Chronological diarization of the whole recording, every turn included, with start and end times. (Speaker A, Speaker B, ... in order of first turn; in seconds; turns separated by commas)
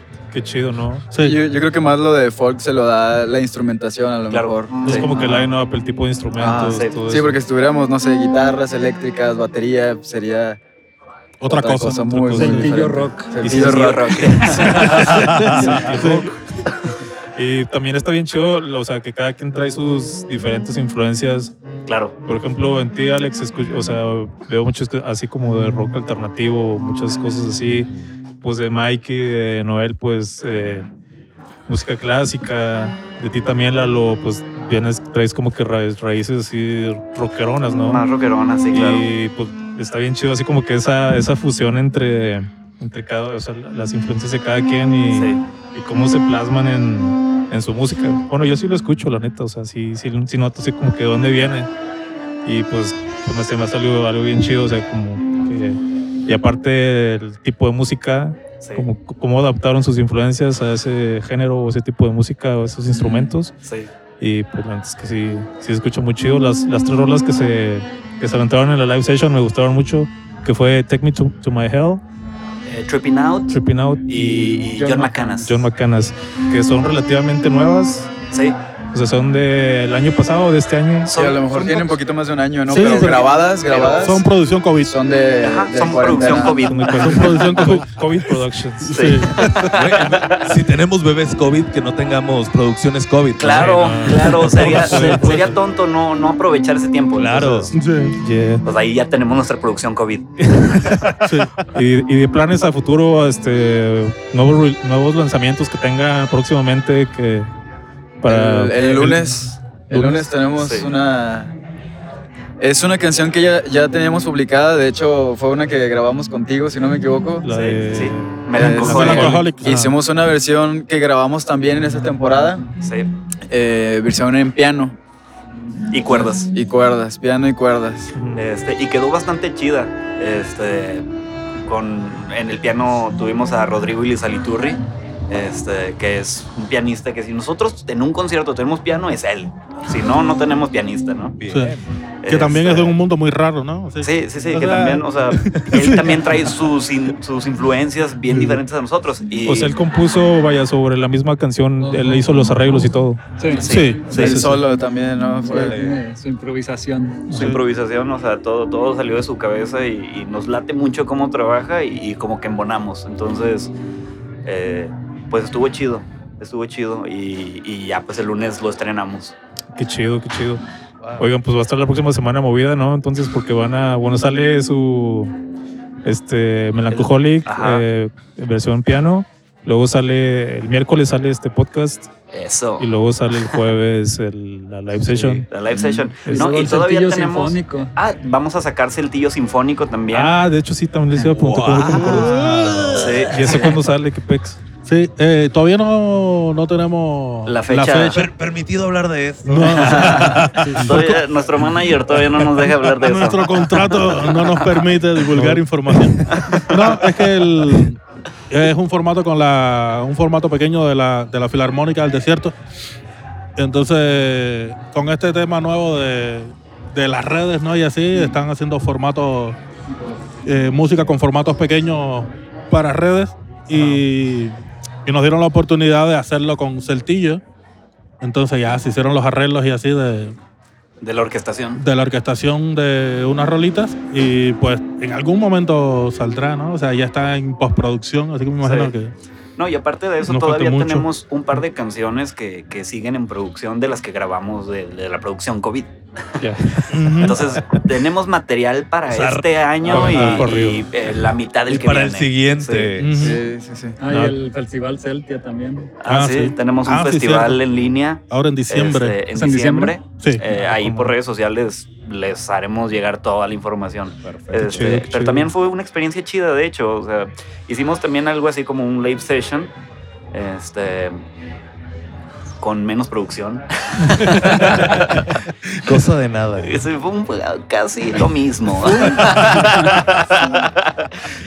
Speaker A: 0.3-1.1, Speaker B: 1.1-1.4, Speaker C: 1.2-4.9, Speaker D: 4.3-5.1, Speaker A: 4.8-7.4, Speaker C: 6.4-10.6, Speaker D: 6.6-6.9, Speaker B: 11.4-12.8, Speaker C: 11.5-14.3, Speaker A: 12.1-12.6, Speaker E: 12.3-13.6, Speaker A: 13.4-13.8, Speaker D: 13.5-15.2, Speaker B: 14.4-16.3, Speaker A: 14.7-16.3, Speaker F: 14.7-15.9, Speaker A: 17.4-21.5, Speaker D: 21.9-22.1, Speaker A: 22.2-27.9, Speaker A: 28.4-30.9, Speaker A: 31.7-38.0, Speaker D: 37.9-39.1, Speaker A: 38.7-51.7, Speaker D: 45.1-45.4, Speaker A: 52.5-63.5, Speaker D: 58.6-58.9, Speaker D: 63.6-63.9, Speaker A: 64.2-72.0, Speaker D: 72.7-75.7, Speaker A: 73.5-78.1, Speaker D: 78.3-78.6, Speaker A: 78.9-81.1, Speaker D: 81.0-82.0, Speaker C: 81.2-84.2, Speaker B: 82.7-83.2, Speaker D: 82.7-84.2, Speaker B: 84.0-84.9, Speaker C: 84.8-86.6, Speaker D: 85.4-87.7, Speaker A: 86.5-89.0, Speaker B: 87.0-87.9, Speaker B: 88.8-89.8, Speaker D: 88.9-90.5, Speaker F: 89.7-93.8, Speaker D: 93.4-97.7, Speaker A: 93.5-95.5, Speaker F: 94.3-95.2, Speaker B: 94.4-95.6, Speaker F: 97.2-97.7, Speaker B: 97.7-98.2, Speaker A: 98.2-98.6, Speaker D: 98.6-100.4, Speaker A: 100.4-101.2, Speaker B: 101.2-101.5, Speaker A: 101.7-107.5, Speaker A: 108.2-109.3, Speaker C: 108.3-111.5, Speaker A: 109.9-110.3, Speaker D: 110.6-110.9, Speaker C: 112.6-117.5, Speaker A: 117.4-120.0, Speaker D: 117.5-119.5, Speaker C: 118.5-122.7, Speaker B: 118.6-119.9, Speaker D: 122.8-123.1, Speaker C: 123.5-125.0, Speaker D: 125.9-126.5, Speaker C: 126.1-128.1, Speaker A: 128.1-128.4, Speaker D: 128.3-131.1, Speaker D: 131.7-141.4, Speaker F: 141.4-141.9, Speaker B: 141.5-146.5, Speaker D: 142.2-143.0, Speaker D: 144.0-149.8, Speaker F: 145.6-145.9, Speaker B: 148.3-148.6, Speaker A: 149.5-153.2, Speaker E: 151.8-152.2, Speaker E: 153.4-154.3, Speaker D: 153.6-154.4, Speaker B: 153.7-154.1, Speaker A: 154.1-154.6, Speaker C: 154.1-155.8, Speaker E: 155.4-157.4, Speaker F: 155.5-156.0, Speaker A: 157.3-157.6, Speaker B: 157.3-157.6, Speaker D: 157.3-163.7, Speaker D: 164.4-169.3, Speaker A: 169.7-170.6, Speaker F: 171.0-171.3, Speaker A: 171.2-175.3, Speaker A: 176.1-182.1, Speaker D: 176.9-177.8, Speaker D: 182.3-182.9, Speaker A: 182.8-185.5, Speaker F: 185.2-185.5, Speaker D: 185.5-190.4, Speaker E: 185.8-187.9, Speaker A: 190.1-194.6, Speaker F: 191.2-193.8, Speaker B: 191.6-192.9, Speaker D: 193.0-193.8, Speaker B: 194.9-198.2, Speaker D: 197.5-198.3, Speaker F: 198.1-201.0, Speaker B: 199.4-201.2, Speaker D: 199.5-204.8, Speaker B: 203.0-208.0, Speaker A: 205.3-205.6, Speaker D: 206.3-207.0, Speaker B: 208.5-212.6, Speaker B: 213.6-219.6, Speaker B: 220.4-227.4, Speaker A: 223.7-224.1, Speaker B: 228.2-230.4, Speaker D: 231.0-231.8, Speaker B: 231.8-239.1, Speaker D: 238.6-238.9, Speaker D: 239.6-245.9, Speaker B: 240.3-241.1, Speaker A: 246.4-247.2, Speaker B: 246.9-247.4, Speaker D: 247.2-252.9, Speaker F: 247.5-247.8, Speaker F: 249.1-250.5, Speaker A: 249.9-250.9, Speaker F: 251.7-253.3, Speaker B: 253.0-253.4, Speaker C: 253.2-254.0, Speaker E: 254.0-256.0, Speaker A: 254.1-254.4, Speaker D: 256.0-269.7, Speaker B: 256.1-257.6, Speaker B: 258.3-259.3, Speaker E: 259.3-260.0, Speaker B: 260.1-260.4, Speaker A: 260.4-261.1, Speaker F: 264.2-264.9, Speaker A: 264.5-265.5, Speaker D: 270.3-271.2, Speaker D: 272.6-275.3, Speaker A: 274.2-274.7, Speaker B: 274.2-274.5, Speaker F: 275.8-276.8, Speaker D: 276.6-281.1, Speaker B: 278.9-279.8